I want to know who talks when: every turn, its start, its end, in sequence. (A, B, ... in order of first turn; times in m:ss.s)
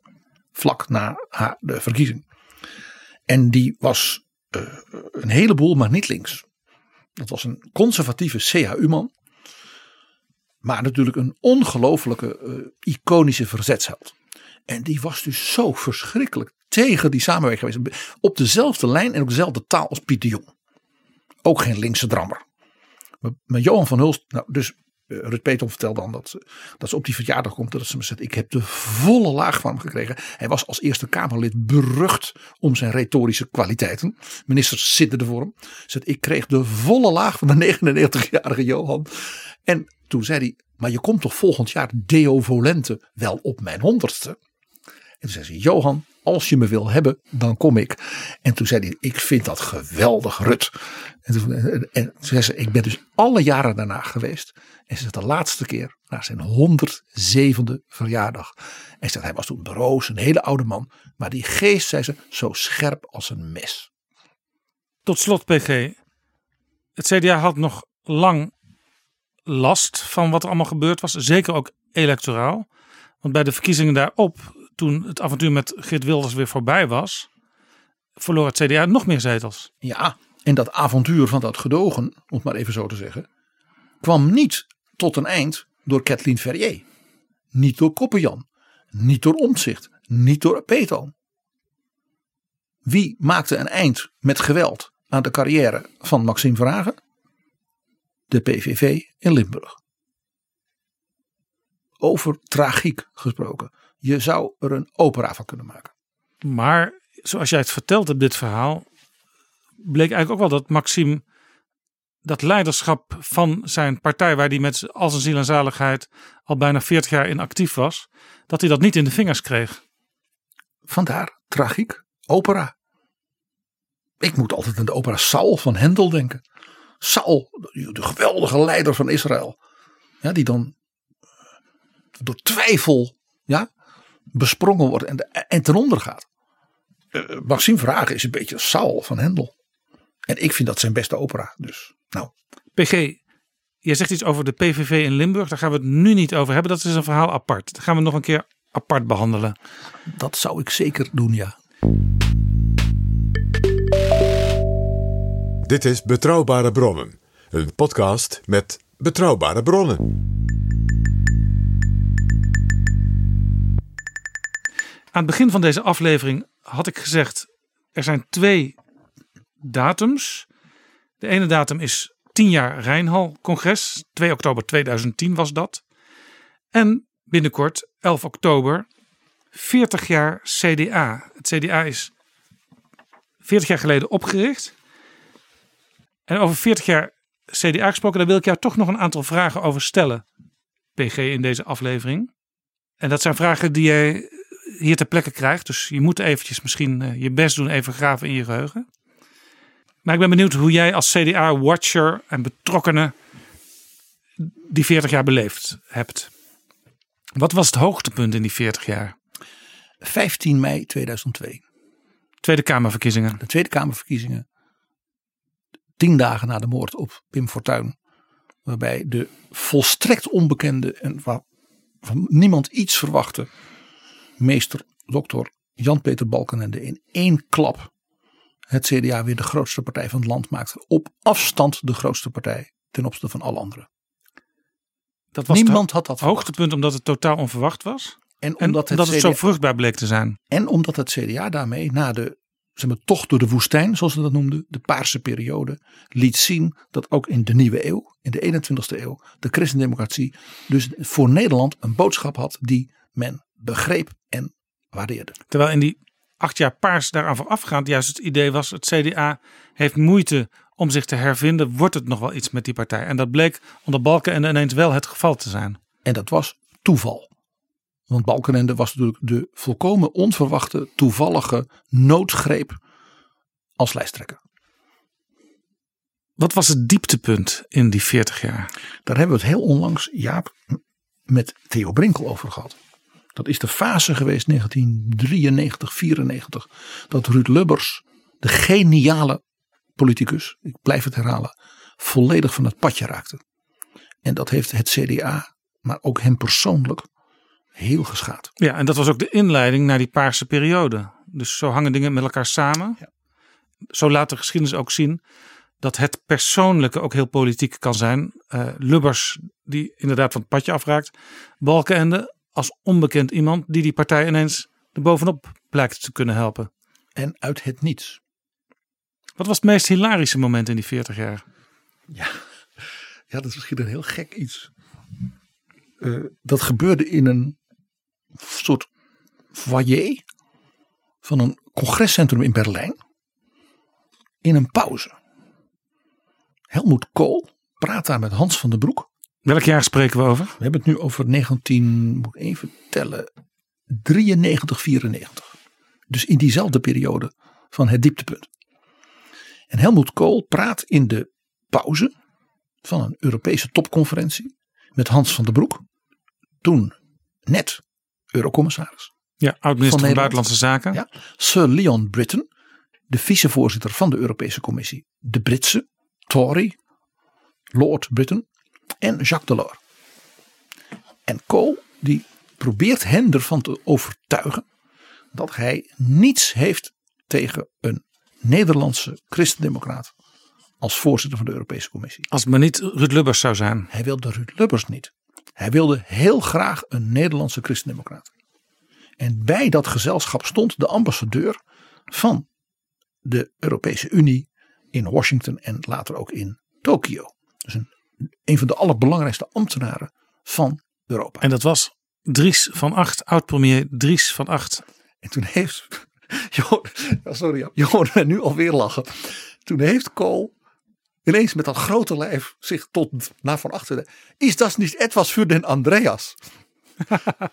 0:00.6-0:02.2 A
0:03.3-0:06.4 A
0:07.2-0:09.1 A
0:10.6-0:14.2 A
0:14.7-0:20.5 A
0:21.4-0:22.4 A
0:23.2-0:44.4 A
0:45.2-1:03.9 A
1:05.1-1:06.0 B
1:07.0-1:08.5 B
1:09.5-1:12.7 B
1:13.2-1:17.3 B
1:18.2-1:19.7 B
1:19.8-1:23.3 A
1:24.0-1:26.8 A
1:27.5-1:31.1 A
1:32.8-1:37.0 A
1:38.3-1:39.8 A
1:42.0-1:45.9 A
1:46.4-1:48.8 B
1:49.8-1:51.2 B
1:52.2-1:59.8 B
2:00.9-2:02.7 A
2:04.2-2:06.4 A
2:07.0-2:09.6 A
2:10.2-2:10.7 A
2:12.2-2:13.7 A
2:14.3-2:16.3 A
2:17.1-2:19.5 A
2:20.3-2:22.3 A
2:22.8-2:23.2 B
2:23.8-2:29.6 B
2:30.1-2:31.6 A
2:35.6-2:40.1 C
2:45.1-2:48.8 B
2:49.6-2:50.5 B
2:51.2-2:55.8 B
2:56.7-2:58.9 B
2:59.5-3:02.1 B
3:03.4-3:04.7 B
3:06.3-3:10.2 B
3:11.0-3:12.3 B
3:13.0-3:18.9 B
3:20.0-3:23.1 B
3:24.4-3:26.3 B
3:27.4-3:29.2 B
3:30.0-3:31.6 A
3:32.4-3:33.4 B
3:33.4-3:34.4 A
3:36.0-3:38.0 A
3:38.7-3:41.4 A
3:42.0-3:43.5 A
3:44.4-3:47.9 A
3:48.7-3:53.9 A
3:55.3-4:00.4 B
3:55.5-3:56.5 A
3:58.4-3:59.4 A
4:00.5-4:15.4 A
4:15.5-4:25.8 B
4:26.0-4:27.3 A
4:28.1-4:32.8 A
4:33.8-4:34.4 A
4:36.4-4:38.7 B
4:39.1-4:42.8 A
4:43.4-4:49.4 A
4:50.0-4:53.4 A
4:54.2-4:57.1 A
4:57.8-4:58.5 A
4:58.6-5:03.0 B
5:03.9-5:05.2 B
5:05.8-5:16.7 B
5:17.2-5:18.2 A
5:19.4-5:21.4 B
5:22.1-5:22.4 A
5:23.3-5:24.7 A
5:26.0-5:27.6 A
5:28.4-5:28.9 A
5:29.5-5:30.2 A
5:31.2-5:33.0 A
5:34.4-5:35.2 A
5:36.7-5:39.1 A
5:39.5-5:40.5 B
5:40.6-5:43.3 A
5:43.9-5:45.5 A
5:46.1-5:48.5 A
5:49.7-5:52.1 A
5:52.8-5:55.8 A
5:56.6-5:59.1 A
5:59.4-6:01.0 B
5:59.8-6:02.5 A
6:03.1-6:06.8 A
6:07.7-6:08.5 A
6:09.0-6:09.8 A
6:11.3-6:14.6 A
6:15.3-6:20.1 A
6:20.8-6:22.3 A
6:22.3-6:23.9 B
6:23.9-6:28.3 A
6:29.2-6:31.6 A
6:32.1-6:32.5 A
6:33.2-6:37.9 A
6:38.5-6:41.4 A
6:41.4-6:44.8 B
6:45.2-6:50.5 A
6:51.2-6:56.4 A